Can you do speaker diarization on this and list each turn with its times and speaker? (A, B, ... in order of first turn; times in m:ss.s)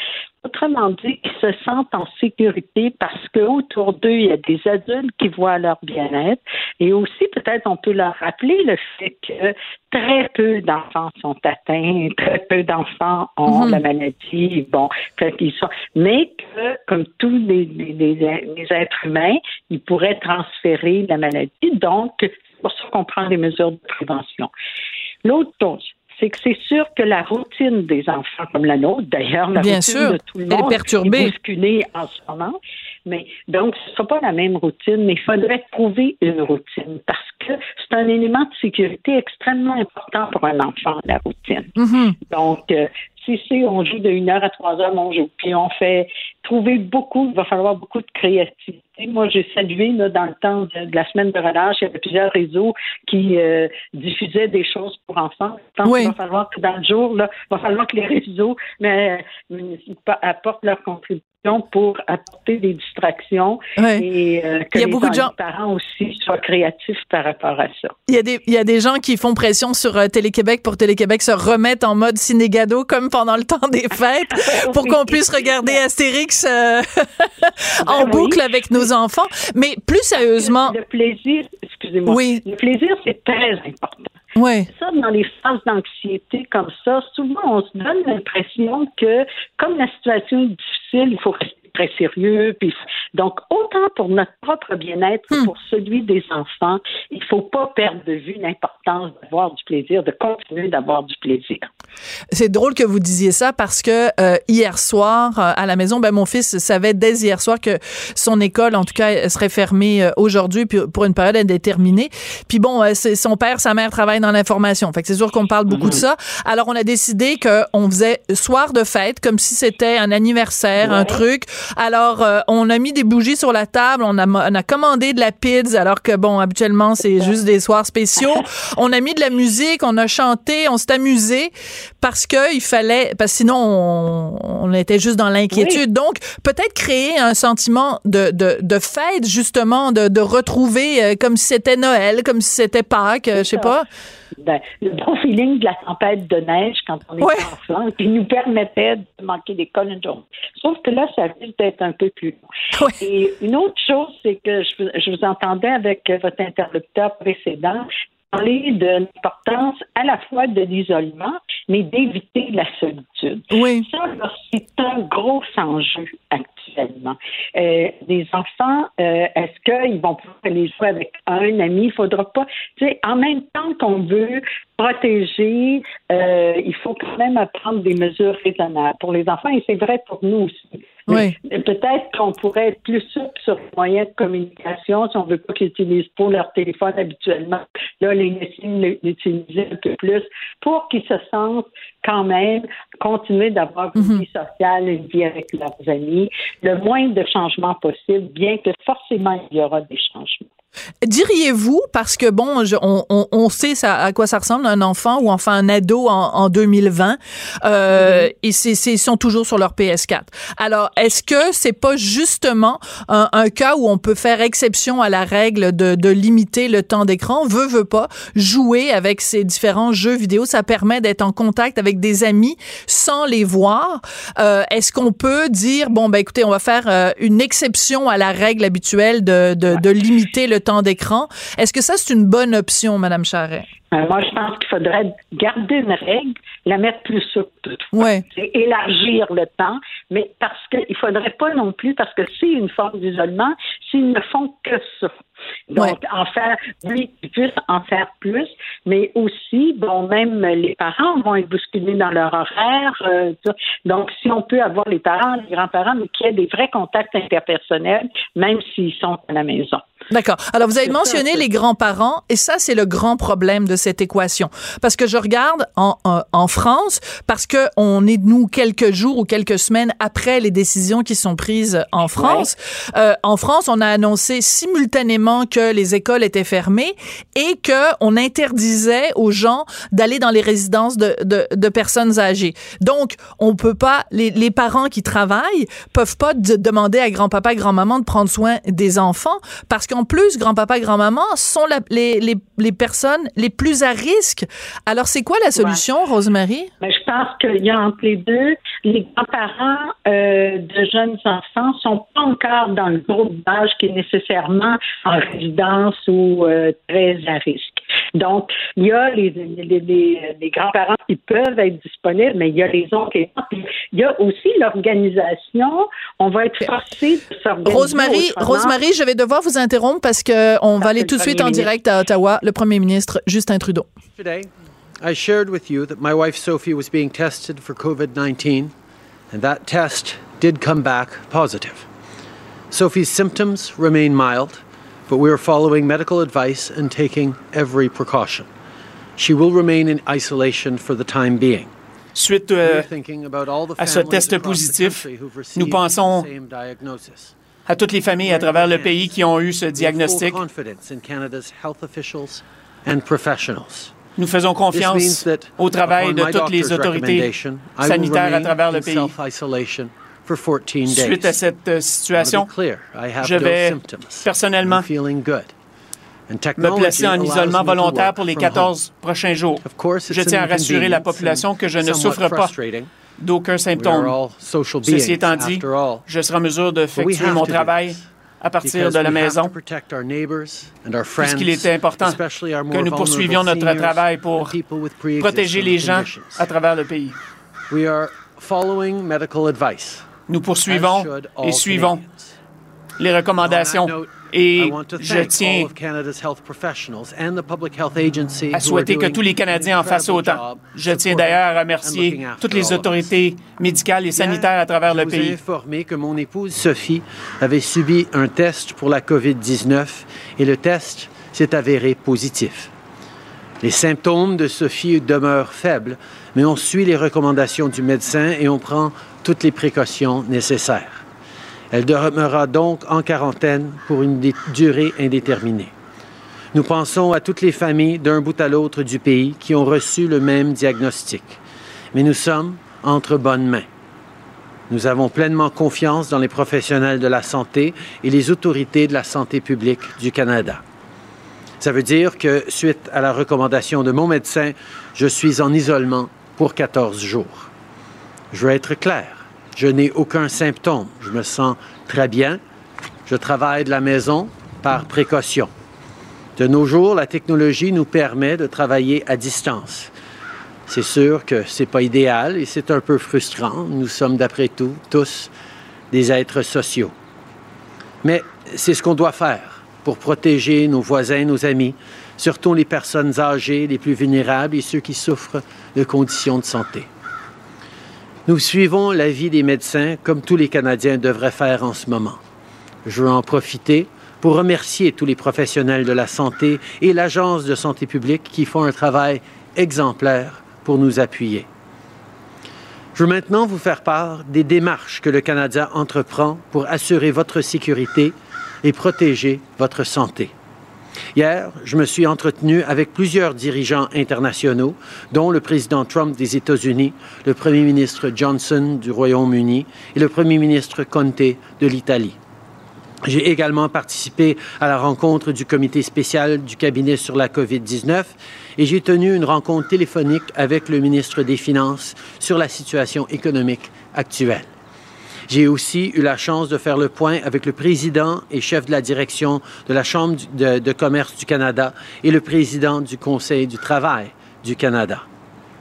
0:00.4-0:24.5 A
0:13.5-0:13.8 B
0:25.2-0:41.7 A
0:29.6-0:31.3 B
0:41.8-0:42.2 B
0:42.3-1:08.0 A
0:55.8-0:56.2 B
1:03.8-1:04.1 B
1:04.8-1:05.3 B
1:08.1-1:20.8 B
1:14.4-1:15.8 A
1:17.8-1:18.9 A
1:20.4-1:24.1 A
1:22.1-1:22.4 B
1:24.4-1:24.7 B
1:24.7-1:41.7 A
1:42.3-2:23.9 B
1:55.7-1:56.0 A
2:00.8-2:01.2 A
2:15.5-2:15.8 A
2:23.4-2:23.7 A
2:24.4-2:32.4 A
2:27.2-2:27.5 B
2:33.0-3:20.4 A
2:43.5-2:43.9 B
3:01.1-3:01.4 B
3:14.0-3:14.2 B
3:21.0-3:53.7 B
3:53.9-4:05.1 A
3:57.9-3:58.2 B
4:05.7-4:19.8 A
4:20.1-4:56.7 B
4:20.9-4:21.4 A
4:32.2-4:32.5 A
4:56.8-5:18.8 A
5:17.6-5:23.9 B
5:20.8-5:21.7 A
5:24.2-5:28.7 C
5:29.3-5:31.9 C
5:32.7-5:38.5 C
5:39.2-5:41.7 C
5:42.2-5:42.9 D
5:42.6-5:47.3 C
5:43.8-5:45.0 D
5:45.6-5:46.3 D
5:47.7-5:50.4 D
5:48.2-5:49.0 C
5:49.7-5:54.0 C
5:54.2-5:59.1 D
5:54.7-6:01.4 C
6:00.9-6:02.5 D
6:02.1-6:05.5 C
6:03.2-6:04.9 D
6:06.3-6:08.7 C
6:06.6-6:12.6 D
6:09.6-6:12.9 C
6:13.2-6:14.2 D
6:13.8-6:16.0 C
6:14.8-6:19.5 D
6:17.0-6:18.1 C
6:18.6-6:26.5 C
6:21.2-6:24.5 D
6:25.2-6:27.2 D
6:27.7-6:32.3 C
6:30.3-6:32.0 D
6:33.0-6:35.7 D
6:33.4-6:43.1 C
6:38.5-6:45.4 D
6:44.1-6:52.7 C
6:53.6-7:01.0 C
7:01.7-7:05.7 C
7:06.5-7:11.4 C
7:11.9-7:13.7 C
7:14.7-7:20.6 C
7:21.6-7:27.5 C
7:28.3-7:32.4 C
7:33.1-7:35.5 C
7:36.4-7:39.9 C
7:40.7-7:45.3 C
7:45.9-7:46.9 C
7:48.0-7:56.9 C
7:58.3-8:02.2 C
8:02.8-8:11.5 C
8:13.0-8:20.3 C
8:21.2-8:32.2 C
8:33.0-8:44.5 C
8:45.3-8:55.1 C